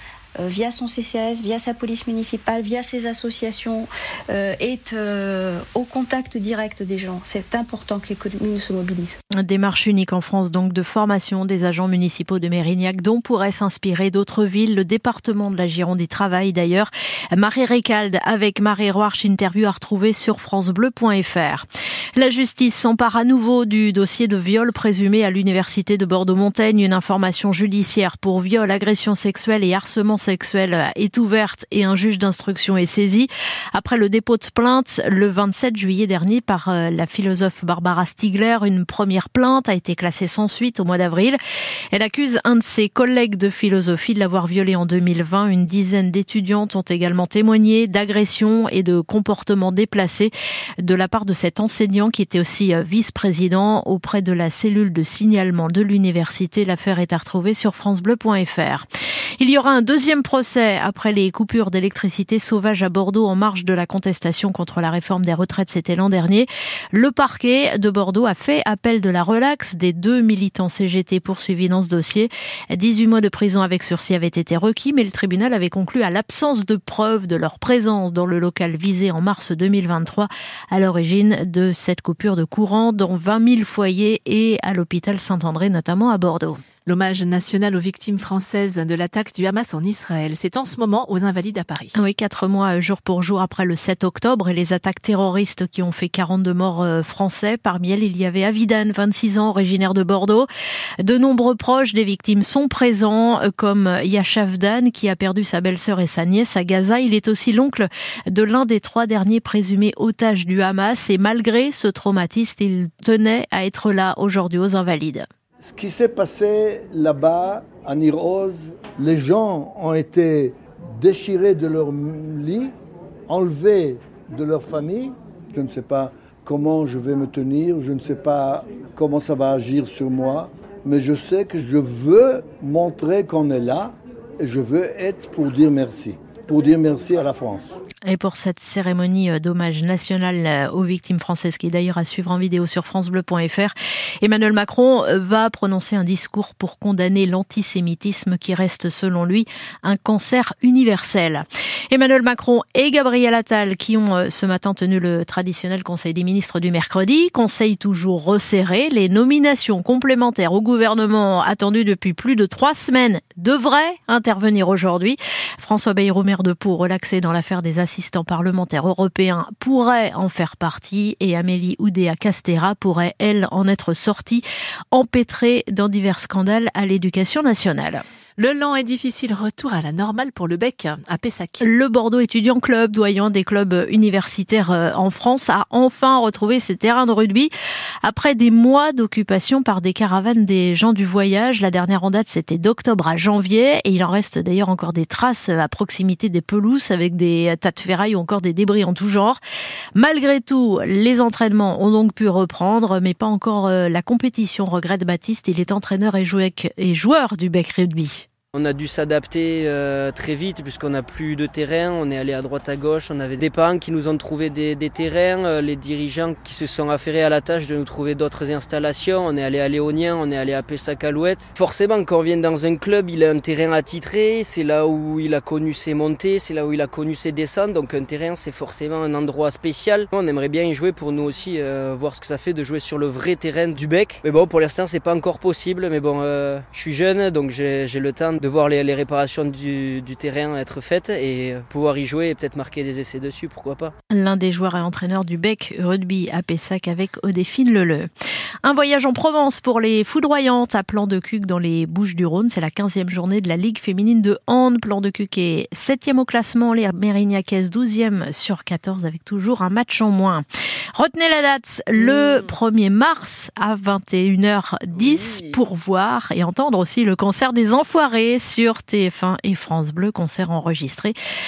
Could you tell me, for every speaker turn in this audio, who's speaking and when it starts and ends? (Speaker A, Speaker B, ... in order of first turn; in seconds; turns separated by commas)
Speaker A: 0.4-9.2, Speaker B: 9.4-41.4, Speaker B: 41.9-58.9, Speaker B: 59.4-86.6, Speaker C: 86.8-92.0, Speaker B: 91.9-100.5, Speaker B: 101.0-115.2, Speaker D: 115.6-122.7, Speaker D: 123.3-137.8, Speaker B: 138.1-178.0, Speaker C: 178.4-181.7, Speaker B: 181.6-187.5, Speaker B: 188.0-199.4, Speaker B: 199.9-208.2, Speaker E: 208.5-243.9, Speaker B: 244.1-248.1, Speaker B: 248.6-271.1, Speaker E: 262.0-262.5, Speaker E: 264.9-265.6